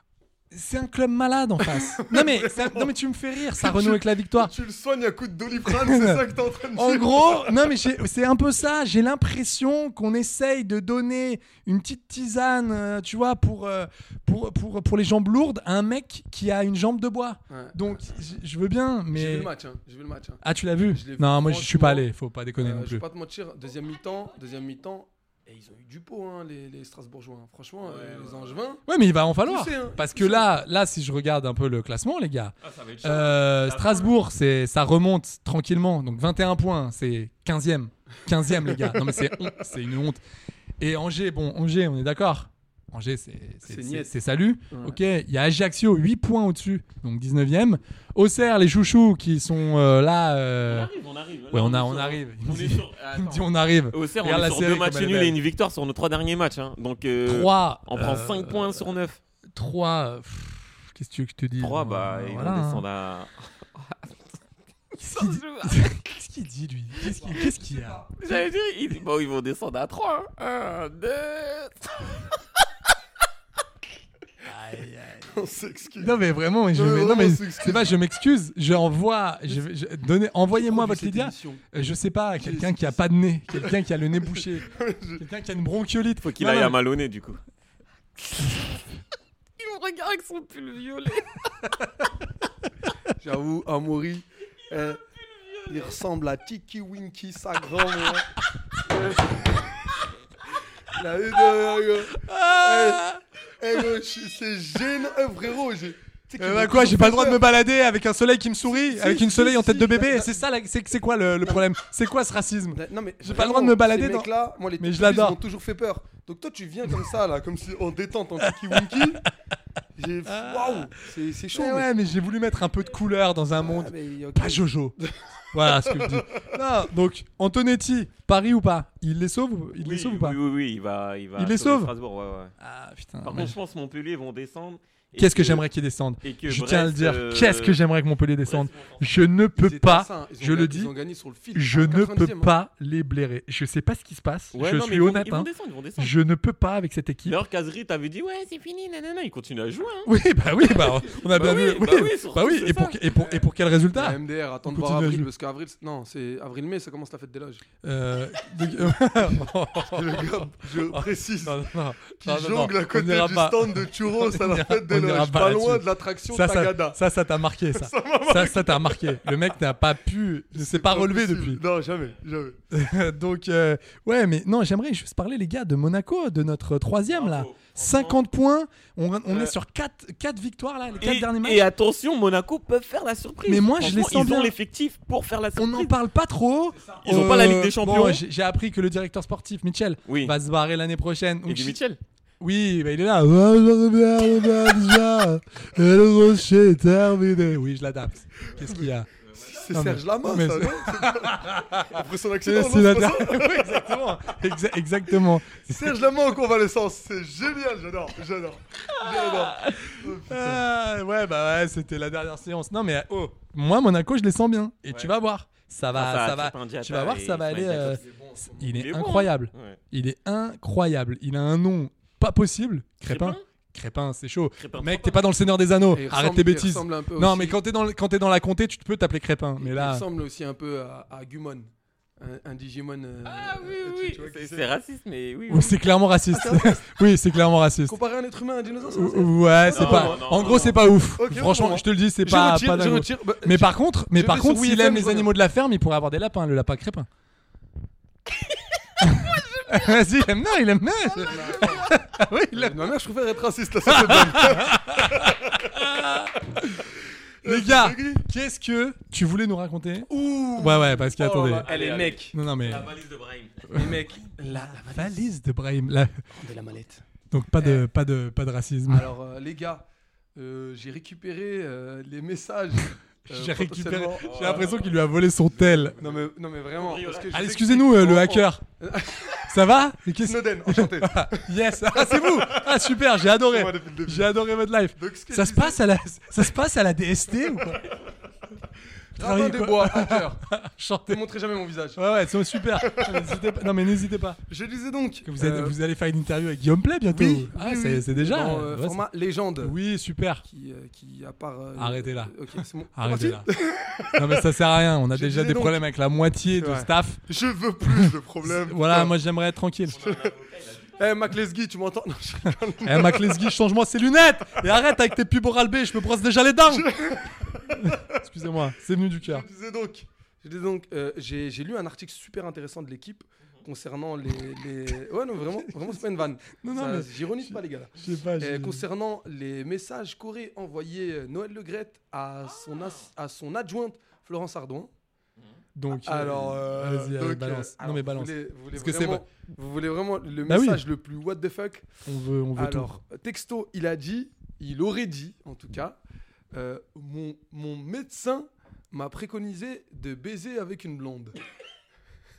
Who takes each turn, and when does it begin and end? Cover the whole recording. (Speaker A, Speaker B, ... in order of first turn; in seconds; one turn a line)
Speaker A: 0.5-4.5
Speaker B: 1.7-2.9
Speaker B: 3.6-7.6
Speaker A: 5.6-19.5
Speaker B: 17.5-17.9
Speaker B: 19.1-22.1
Speaker A: 20.4-23.0
Speaker B: 22.6-28.8
Speaker C: 27.8-28.6
Speaker A: 28.9-40.2
Speaker B: 29.4-30.5
Speaker C: 32.6-34.1
Speaker A: 40.8-50.9
Speaker B: 43.6-44.1
Speaker B: 44.7-45.0
Speaker C: 50.6-59.2
Speaker A: 51.5-55.4
Speaker A: 57.2-58.9
Speaker A: 59.5-62.8
Speaker C: 61.6-64.1
Speaker C: 64.9-66.0
Speaker A: 65.0-68.0
Speaker B: 67.1-68.1
Speaker C: 68.2-72.2
Speaker A: 74.4-75.3
Speaker B: 75.3-76.2
Speaker A: 76.0-86.8
Speaker B: 76.7-78.0
Speaker B: 80.5-81.7
Speaker B: 82.4-85.2
Speaker C: 86.2-87.4
Speaker C: 88.3-88.6
Speaker C: 89.6-91.5
Speaker B: 93.2-95.0
Speaker C: 95.2-95.9
Speaker B: 95.7-98.3
Speaker B: 98.8-99.4
Speaker B: 100.9-103.1
Speaker A: 102.1-103.2
Speaker B: 103.6-107.4
Speaker A: 106.4-115.4
Speaker B: 108.7-110.4
Speaker B: 112.7-119.2
Speaker A: 118.4-119.2
Speaker B: 120.0-121.9
Speaker A: 120.2-120.9
Speaker A: 121.5-124.9
Speaker B: 123.6-126.4
Speaker A: 125.5-130.4
Speaker C: 129.8-132.5
Speaker A: 131.4-131.9
Speaker A: 132.6-133.6
Speaker C: 133.2-135.6
Speaker A: 135.2-140.9
Speaker C: 136.2-137.8
Speaker C: 138.4-139.3
Speaker B: 139.5-142.5
Speaker A: 141.5-147.4
Speaker C: 144.5-146.1
Speaker C: 147.3-150.1
Speaker A: 150.0-155.3
Speaker C: 150.8-153.0
Speaker B: 153.9-157.6
Speaker A: 157.8-171.6
Speaker B: 158.6-167.0
Speaker B: 167.7-169.3
Speaker B: 170.5-172.6
Speaker A: 172.7-181.7
Speaker C: 177.1-178.2
Speaker C: 179.3-179.5
Speaker C: 181.0-185.9
Speaker A: 183.4-184.5
Speaker A: 185.6-191.8
Speaker B: 186.8-187.3
Speaker C: 187.0-188.2
Speaker C: 190.1-190.3
Speaker C: 191.4-192.0
Speaker A: 192.4-199.1
Speaker B: 198.6-198.9
Speaker C: 199.2-199.6
Speaker B: 199.4-204.1
Speaker A: 199.7-206.0
Speaker B: 205.7-210.6
Speaker C: 208.9-209.9
Speaker A: 210.2-218.0
Speaker C: 215.9-218.0
Speaker B: 217.8-218.8
Speaker A: 218.6-230.0
Speaker C: 218.7-219.8
Speaker C: 223.0-223.4
Speaker C: 224.6-225.2
Speaker B: 225.9-227.6
Speaker B: 229.6-231.7
Speaker B: 232.2-234.7
Speaker C: 233.2-235.8
Speaker A: 235.5-238.0
Speaker B: 236.3-236.8
Speaker B: 237.8-245.3
Speaker A: 238.9-247.1
Speaker C: 239.7-240.8
Speaker A: 249.0-252.9
Speaker B: 251.2-252.0
Speaker B: 252.5-255.7
Speaker A: 253.8-256.4
Speaker B: 257.4-258.2
Speaker A: 257.4-261.7
Speaker B: 260.1-262.4
Speaker C: 261.2-263.8
Speaker A: 262.3-262.9
Speaker A: 263.7-264.0
Speaker B: 263.7-265.3
Speaker A: 264.5-266.2
Speaker B: 266.4-267.0
Speaker A: 267.3-269.1
Speaker B: 267.6-267.8
Speaker B: 268.9-274.8
Speaker A: 273.3-276.0
Speaker C: 274.2-275.0
Speaker C: 275.5-277.4
Speaker B: 276.0-279.5
Speaker A: 277.3-278.6
Speaker A: 279.5-287.8
Speaker B: 280.2-282.9
Speaker B: 283.4-284.4
Speaker B: 284.9-285.8
Speaker B: 289.1-290.4
Speaker A: 289.2-291.2
Speaker B: 291.1-292.0
Speaker A: 291.9-294.4
Speaker B: 292.8-293.4
Speaker B: 294.5-295.8
Speaker A: 295.2-299.0
Speaker B: 297.1-299.8
Speaker A: 299.6-300.4
Speaker B: 300.4-304.5
Speaker A: 301.8-302.4
Speaker A: 302.9-303.5
Speaker A: 304.1-307.2
Speaker B: 305.1-305.8
Speaker B: 306.6-309.1
Speaker A: 307.8-310.0
Speaker C: 309.9-311.1
Speaker B: 309.9-310.3
Speaker B: 311.0-313.5
Speaker A: 312.8-316.9
Speaker B: 316.7-318.1
Speaker A: 317.8-319.5
Speaker B: 319.2-334.9
Speaker A: 326.6-328.9
Speaker C: 332.5-333.1
Speaker A: 335.7-339.2
Speaker B: 336.0-341.9
Speaker A: 340.4-340.8
Speaker A: 342.1-343.0
Speaker B: 342.6-346.0
Speaker B: 346.5-351.4